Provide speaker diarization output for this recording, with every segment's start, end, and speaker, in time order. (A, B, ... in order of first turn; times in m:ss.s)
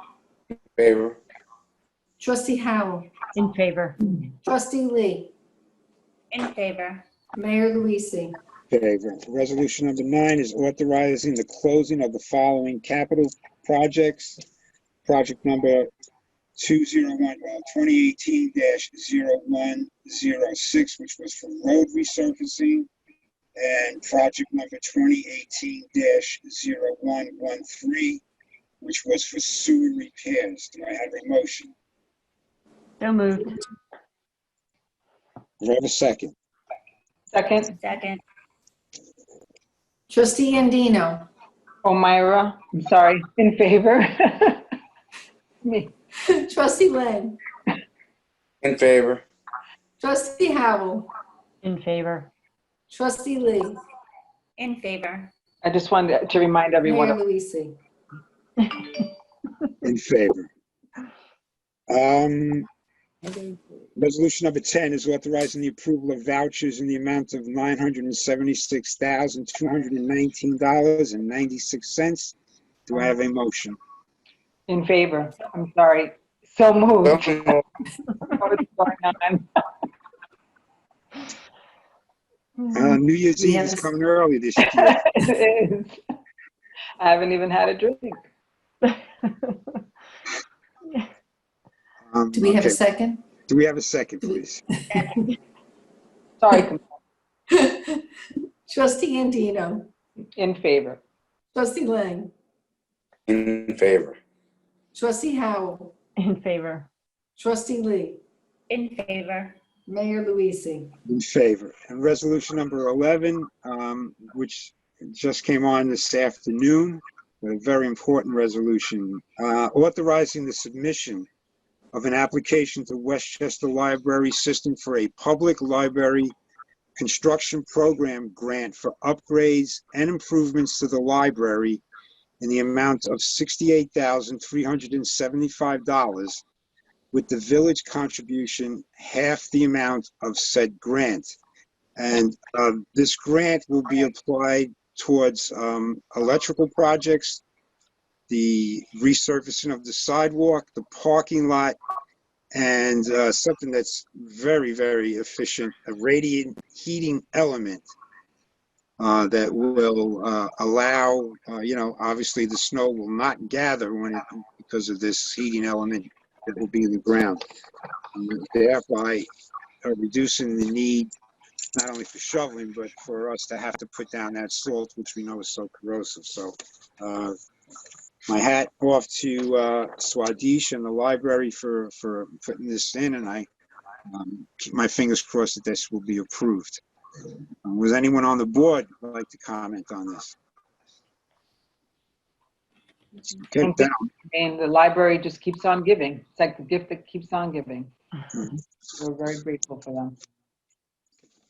0:00.8-0:01.2 A
0:02.2-0:03.1 B
0:03.4-0:04.0 C
0:04.4-0:05.3 B
0:06.3-0:07.0 D
0:07.4-0:08.4 B
0:08.7-0:14.4 E
0:15.0-0:15.9 E
0:16.6-0:22.9 E
0:23.6-0:28.2 E
0:28.8-0:31.7 E
0:33.0-0:33.6 C
0:35.6-0:36.3 E
0:37.3-0:37.8 F
0:37.8-0:38.2 D
0:40.1-0:41.3 B
0:41.8-0:44.6 F
0:45.6-0:45.9 F
0:46.3-0:47.4 B
0:48.6-0:49.2 A
0:50.0-0:51.1 B
0:51.6-0:52.3 C
0:52.9-0:53.8 B
0:54.6-0:55.3 D
0:55.6-0:57.2 F
0:56.8-0:57.8 B
0:59.8-1:00.5 E
1:01.9-1:02.7 E
1:04.0-1:12.3 E
1:12.8-1:13.8 E
1:14.7-1:17.5 F
1:17.0-1:17.6 A
1:18.3-1:19.5 F
1:22.7-1:25.0 E
1:23.4-1:23.8 B
1:24.7-1:26.0 F
1:27.0-1:28.2 F
1:28.8-1:29.8 C
1:32.1-1:32.8 E
1:32.3-1:33.2 B
1:33.5-1:34.6 E
1:36.4-1:36.8 F
1:37.5-1:38.0 B
1:38.7-1:39.9 B
1:40.4-1:41.0 F
1:41.5-1:42.3 B
1:43.3-1:44.2 A
1:44.9-1:45.9 B
1:46.2-1:46.9 C
1:47.4-1:48.2 B
1:48.7-1:49.5 D
1:49.9-1:50.9 B
1:51.0-2:01.3 E
2:01.9-2:06.3 E
2:07.0-2:11.8 E
2:12.4-2:16.4 E
2:17.1-2:21.4 E
2:22.0-2:27.4 E
2:28.3-2:31.8 E
2:32.5-2:37.9 E
2:39.0-2:47.4 E
2:48.1-2:49.3 E
2:49.8-2:51.1 E
2:51.7-2:57.3 E
2:58.3-3:03.5 E
3:04.1-3:06.8 E
3:07.6-3:10.4 E
3:13.3-3:14.1 E
3:13.6-3:17.9 F
3:19.0-3:20.2 F